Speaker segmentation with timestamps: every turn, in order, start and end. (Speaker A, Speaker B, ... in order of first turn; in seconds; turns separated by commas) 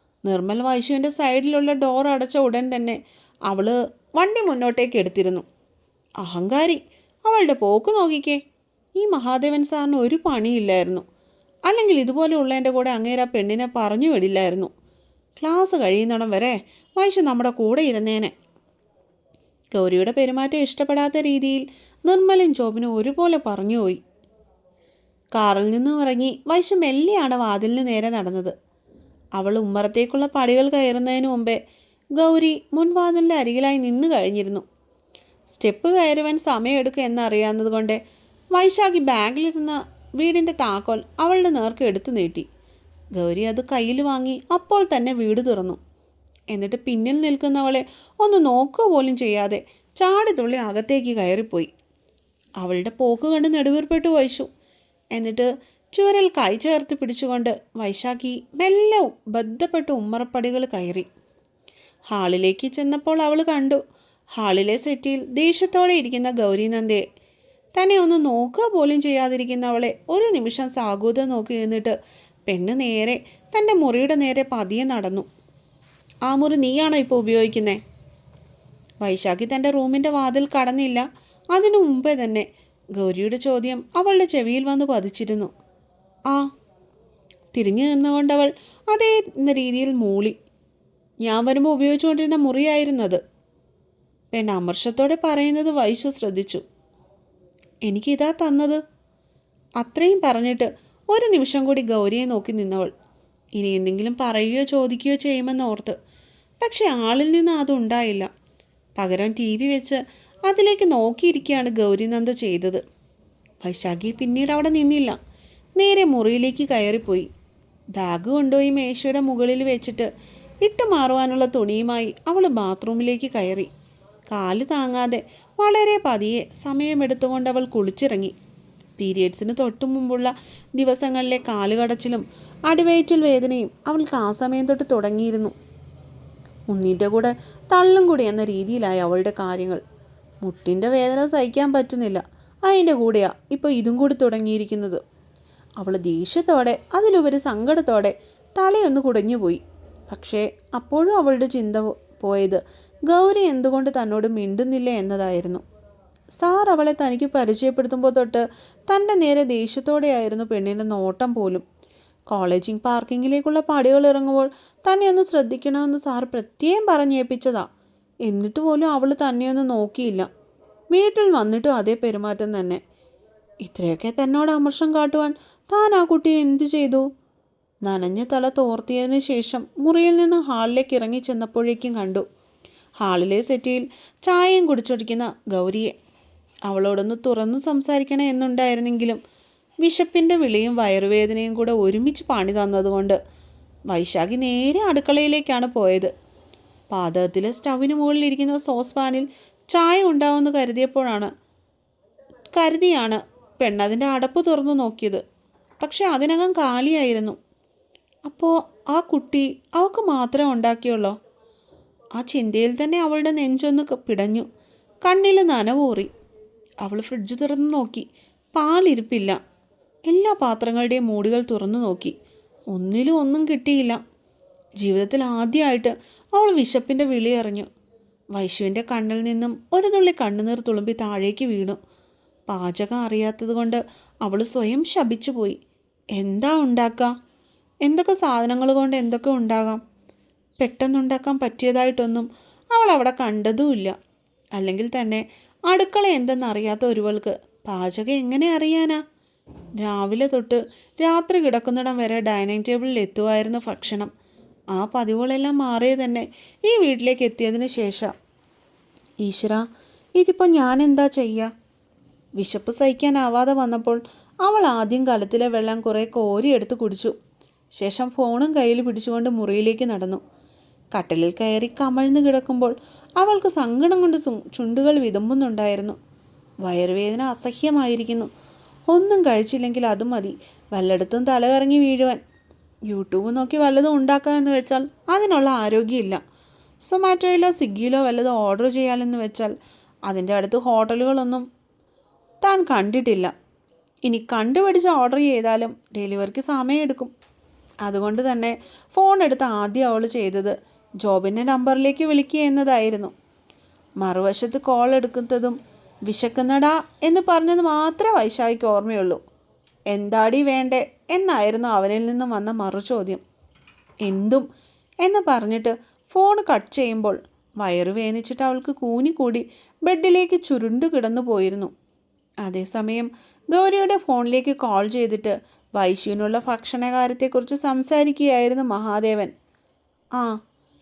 Speaker A: 0.2-5.5, Speaker A: 6.2-8.4, Speaker A: 8.9-11.0, Speaker A: 11.7-14.7, Speaker A: 15.4-18.3, Speaker A: 19.7-24.0, Speaker A: 25.4-28.5, Speaker A: 29.4-31.6, Speaker A: 32.2-34.6, Speaker A: 35.5-38.0, Speaker A: 38.5-42.5, Speaker A: 43.1-45.8, Speaker A: 46.5-51.7, Speaker A: 52.6-54.5, Speaker A: 55.1-61.1, Speaker A: 62.1-63.8, Speaker A: 64.4-67.0, Speaker A: 67.8-75.3, Speaker A: 76.3-77.8, Speaker A: 79.0-85.5, Speaker A: 87.5-90.4, Speaker A: 91.2-93.2, Speaker A: 94.3-96.6, Speaker A: 97.8-98.8, Speaker A: 99.8-102.9, Speaker A: 103.6-106.0, Speaker A: 106.6-108.3, Speaker A: 109.0-112.8, Speaker A: 113.6-115.2, Speaker A: 115.8-117.3, Speaker A: 118.0-120.1, Speaker A: 120.6-123.7, Speaker A: 124.3-128.3, Speaker A: 129.0-135.5, Speaker A: 136.7-139.8, Speaker A: 140.4-145.0, Speaker A: 145.8-155.6, Speaker A: 156.4-161.6, Speaker A: 162.3-167.7, Speaker A: 168.3-170.3, Speaker A: 170.9-172.8, Speaker A: 173.6-177.1, Speaker A: 177.8-182.2, Speaker A: 183.0-185.9, Speaker A: 186.7-189.2, Speaker A: 189.8-193.2, Speaker A: 193.9-196.1, Speaker A: 196.9-201.3, Speaker A: 202.5-205.2, Speaker A: 205.8-207.4, Speaker A: 208.3-211.2, Speaker A: 212.2-214.5, Speaker A: 215.0-216.1, Speaker A: 216.8-219.4, Speaker A: 220.1-222.1, Speaker A: 222.7-224.0, Speaker A: 224.8-227.7, Speaker A: 228.3-231.8, Speaker A: 232.5-235.6, Speaker A: 236.2-237.1, Speaker A: 237.8-239.8, Speaker A: 240.6-244.0, Speaker A: 244.6-249.0, Speaker A: 249.8-254.1, Speaker A: 254.8-258.1, Speaker A: 259.2-259.7, Speaker A: 260.2-261.5, Speaker A: 262.4-267.2, Speaker A: 267.8-270.2, Speaker A: 270.9-276.0, Speaker A: 276.6-278.3, Speaker A: 278.9-282.2, Speaker A: 282.9-286.2, Speaker A: 286.8-289.6, Speaker A: 290.1-291.5, Speaker A: 292.4-293.3, Speaker A: 294.0-297.1, Speaker A: 297.9-303.1, Speaker A: 304.0-309.2, Speaker A: 309.9-313.2, Speaker A: 314.0-314.5, Speaker A: 315.0-321.7, Speaker A: 322.4-329.3